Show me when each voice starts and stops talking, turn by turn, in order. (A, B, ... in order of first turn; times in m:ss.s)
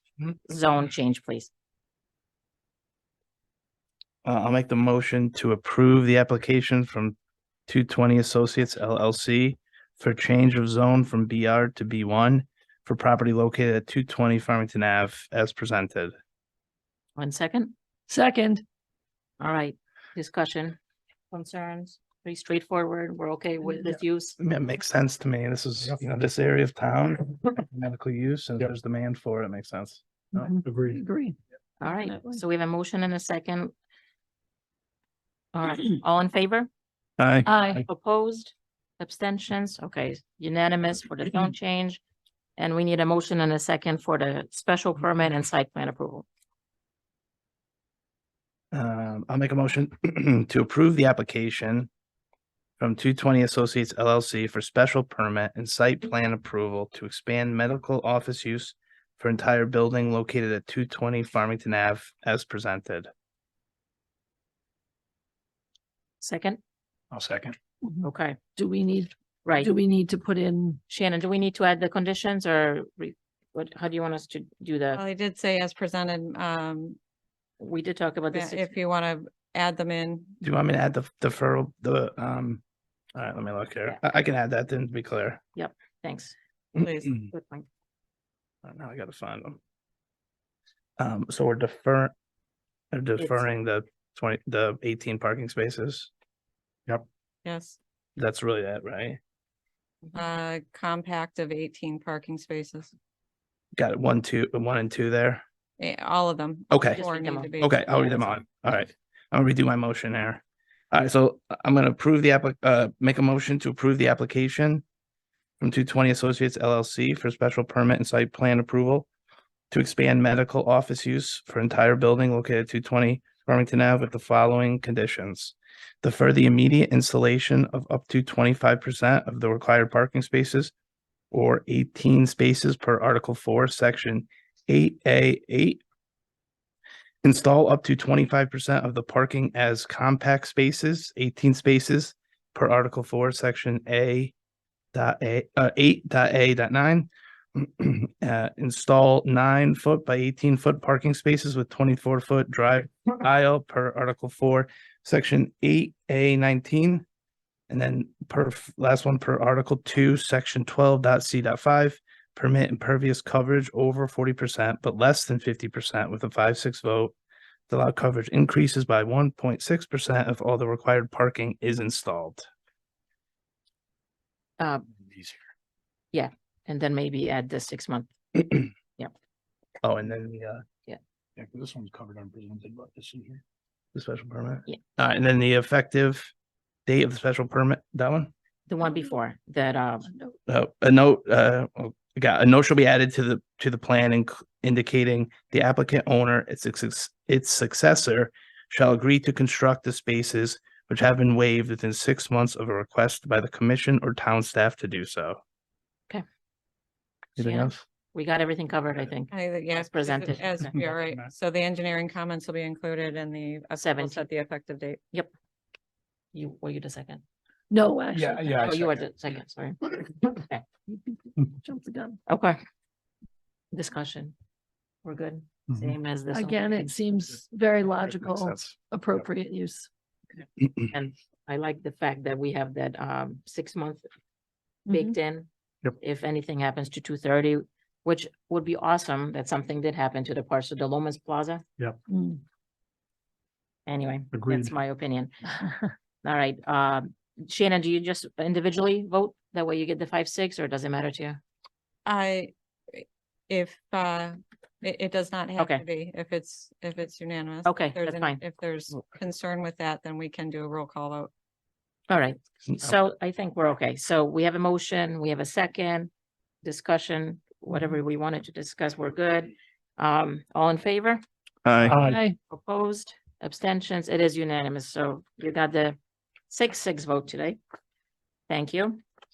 0:00.4-0:01.5 A
0:04.2-0:07.2 B
0:07.7-0:16.1 B
0:17.2-0:17.7 A
0:18.1-0:18.6 C
0:19.4-0:20.8 A
0:21.3-0:24.4 A
0:24.4-0:30.0 B
0:30.3-0:32.4 C
0:30.4-0:31.0 D
0:31.8-0:33.7 A
0:35.5-0:36.7 A
0:37.2-0:37.7 B
0:37.4-0:37.8 C
0:37.8-0:42.0 A
0:42.6-0:46.3 A
0:48.7-0:51.9 B
0:52.8-1:03.1 B
1:06.2-1:06.6 A
1:07.1-1:07.6 D
1:07.9-1:10.8 C
1:08.0-1:08.4 A
1:09.4-1:09.7 A
1:10.9-1:15.0 A
1:14.9-1:17.0 E
1:17.6-1:18.7 A
1:18.3-1:20.4 E
1:20.4-1:22.6 B
1:23.2-1:25.4 B
1:25.6-1:26.4 A
1:26.8-1:27.2 E
1:27.3-1:27.7 A
1:28.6-1:29.6 B
1:31.0-1:32.1 B
1:32.9-1:36.1 B
1:33.2-1:33.4 A
1:37.4-1:37.8 E
1:38.2-1:39.2 B
1:40.1-1:42.9 E
1:43.8-1:45.4 B
1:45.8-1:47.9 E
1:46.7-1:47.0 B
1:46.9-1:48.4 A
1:47.6-1:54.8 B
1:55.6-1:59.1 B
1:59.7-2:10.7 B
2:11.3-2:15.8 B
2:17.2-2:24.3 B
2:24.9-2:37.0 B
2:37.7-2:47.1 B
2:47.7-2:52.5 B
2:54.6-2:54.8 A
2:55.1-2:55.4 D
2:56.1-2:59.1 A
2:59.8-3:00.6 B
3:01.4-3:03.4 D
3:03.9-3:06.3 B
3:06.9-3:08.3 B
3:08.7-3:10.1 A
3:10.5-3:25.4 B
3:27.4-3:27.8 B
3:27.4-3:30.8 A
3:29.3-3:35.0 E
3:30.8-3:31.2 D
3:33.8-3:34.2 A
3:36.3-3:37.2 A
3:37.7-3:38.7 C
3:38.1-3:39.0 D
3:38.6-3:40.6 A
3:40.9-3:42.2 C
3:42.3-3:42.6 A
3:43.7-3:44.3 A
3:45.0-3:46.9 A
3:46.3-3:49.9 C
3:50.8-3:54.1 A
3:54.9-3:55.5 A
3:56.0-4:01.6 A
4:02.1-4:02.4 C
4:03.9-4:05.3 A
4:04.3-4:04.7 D
4:06.2-4:11.4 A
4:12.1-4:21.3 E
4:15.6-4:15.8 A
4:17.6-4:18.4 A
4:22.1-4:26.1 A
4:26.6-4:31.2 A
4:31.6-4:32.0 B
4:31.9-4:32.4 C
4:32.5-4:36.0 A
4:36.5-4:37.6 A
4:38.5-4:39.0 A